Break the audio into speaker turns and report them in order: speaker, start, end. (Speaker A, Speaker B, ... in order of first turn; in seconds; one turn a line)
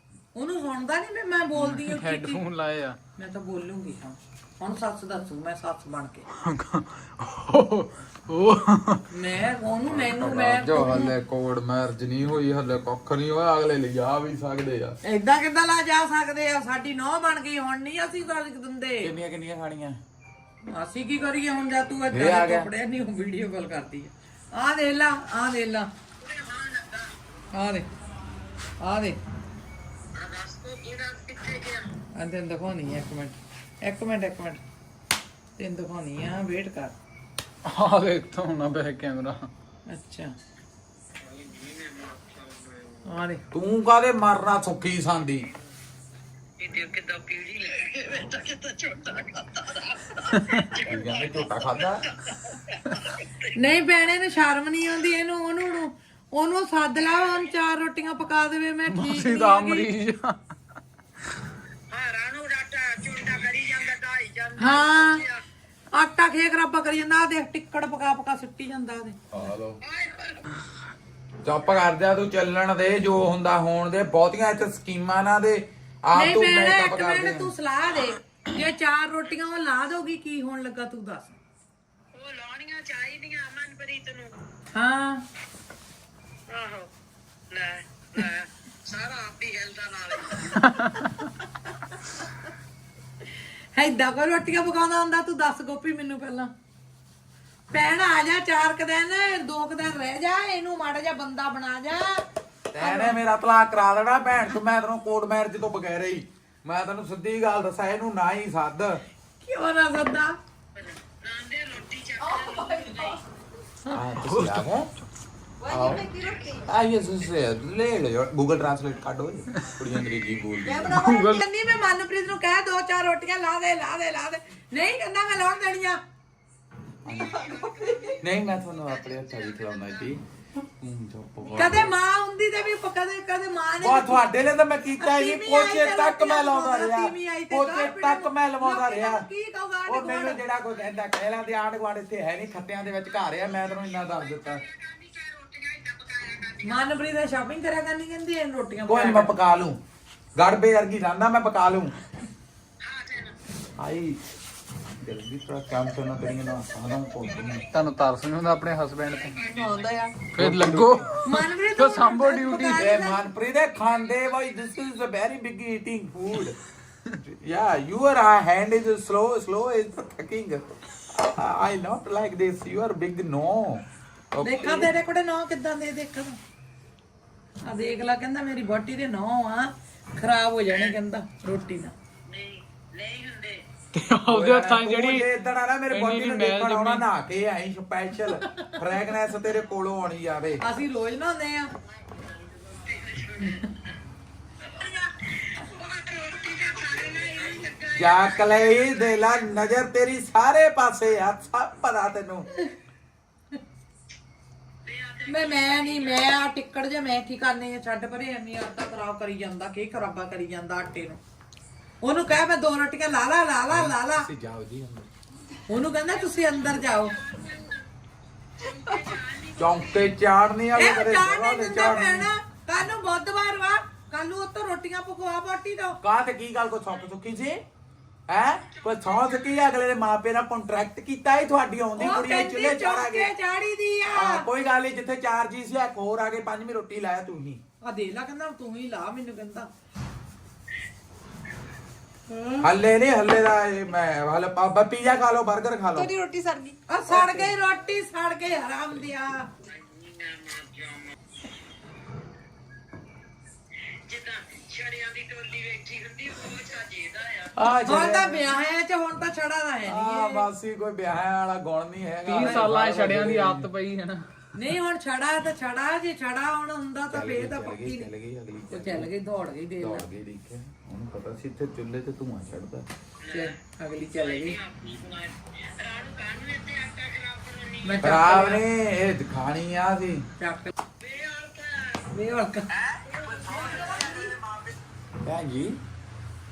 Speaker A: 0.3-2.4
Speaker B: 1.5-3.0
Speaker A: 3.2-6.2
Speaker B: 6.4-9.0
Speaker A: 9.1-11.1
Speaker C: 9.9-15.0
Speaker A: 15.0-19.1
Speaker C: 19.0-20.0
Speaker A: 20.7-25.9
Speaker C: 22.1-22.7
Speaker D: 26.2-27.2
Speaker A: 27.5-27.9
Speaker A: 28.8-29.2
Speaker D: 30.1-31.9
Speaker A: 32.1-34.6
Speaker A: 35.6-36.9
Speaker B: 37.6-39.5
Speaker A: 39.9-40.3
Speaker D: 41.2-43.1
Speaker A: 43.0-43.4
Speaker C: 43.5-45.5
Speaker D: 46.6-53.5
Speaker B: 50.3-50.7
Speaker C: 50.8-52.0
Speaker A: 53.5-59.9
Speaker D: 57.1-57.5
Speaker B: 58.9-60.4
Speaker D: 61.9-65.4
Speaker A: 64.6-65.2
Speaker A: 65.9-69.2
Speaker C: 69.3-69.8
Speaker D: 69.8-70.5
Speaker C: 71.4-77.5
Speaker A: 76.1-81.3
Speaker D: 82.1-84.3
Speaker A: 84.7-85.2
Speaker D: 86.5-86.9
Speaker D: 87.5-90.7
Speaker B: 90.5-91.1
Speaker A: 93.7-96.5
Speaker A: 97.7-102.2
Speaker C: 102.7-109.0
Speaker A: 102.8-103.2
Speaker A: 109.4-110.3
Speaker D: 110.7-113.2
Speaker A: 112.3-113.2
Speaker C: 113.9-114.9
Speaker B: 114.2-114.7
Speaker A: 115.6-116.5
Speaker C: 115.7-116.0
Speaker E: 115.7-116.6
Speaker D: 116.1-116.6
Speaker C: 116.6-121.0
Speaker A: 120.6-126.0
Speaker B: 120.9-121.4
Speaker C: 127.0-127.4
Speaker D: 127.0-130.2
Speaker C: 128.2-131.9
Speaker A: 131.5-134.2
Speaker C: 133.8-139.3
Speaker A: 135.0-140.4
Speaker C: 139.9-144.6
Speaker D: 143.1-146.8
Speaker A: 146.6-149.3
Speaker C: 148.8-149.8
Speaker C: 150.3-151.9
Speaker D: 152.8-153.4
Speaker C: 153.8-154.2
Speaker C: 155.0-157.7
Speaker D: 157.2-157.7
Speaker B: 157.7-159.4
Speaker D: 159.0-160.1
Speaker E: 159.4-160.3
Speaker B: 160.3-162.9
Speaker C: 160.3-161.1
Speaker A: 161.2-163.3
Speaker C: 162.7-166.6
Speaker D: 163.8-164.8
Speaker C: 167.1-174.9
Speaker A: 174.4-176.4
Speaker A: 177.6-181.9
Speaker D: 180.7-181.0
Speaker D: 182.3-183.6
Speaker B: 183.9-185.3
Speaker C: 184.3-190.6
Speaker B: 185.9-187.1
Speaker A: 188.2-188.8
Speaker A: 190.6-191.7
Speaker D: 191.8-193.7
Speaker D: 194.6-199.5
Speaker A: 196.6-197.7
Speaker C: 197.9-202.5
Speaker D: 204.8-206.4
Speaker A: 205.3-211.2
Speaker A: 212.0-214.3
Speaker C: 213.7-215.1
Speaker A: 215.7-217.2
Speaker D: 216.1-217.9
Speaker D: 218.6-220.2
Speaker C: 219.6-222.3
Speaker A: 220.7-226.0
Speaker C: 226.0-227.6
Speaker C: 228.3-233.3
Speaker D: 228.6-229.6
Speaker A: 231.9-234.4
Speaker C: 234.1-237.6
Speaker A: 237.8-239.7
Speaker A: 242.3-242.7
Speaker C: 242.6-246.1
Speaker E: 245.9-246.8
Speaker A: 246.9-249.5
Speaker C: 247.1-247.5
Speaker D: 249.6-251.2
Speaker D: 254.0-257.6
Speaker C: 257.6-258.5
Speaker A: 257.9-260.5
Speaker C: 259.8-263.7
Speaker B: 262.2-264.3
Speaker A: 262.4-262.7
Speaker A: 264.5-268.1
Speaker C: 267.1-269.1
Speaker A: 268.7-270.1
Speaker C: 269.8-272.9
Speaker D: 273.2-278.1
Speaker A: 273.3-274.6
Speaker A: 277.8-278.6
Speaker C: 278.0-280.2
Speaker A: 280.4-280.7
Speaker D: 281.0-282.1
Speaker A: 282.1-282.7
Speaker C: 282.8-285.8
Speaker D: 283.0-284.4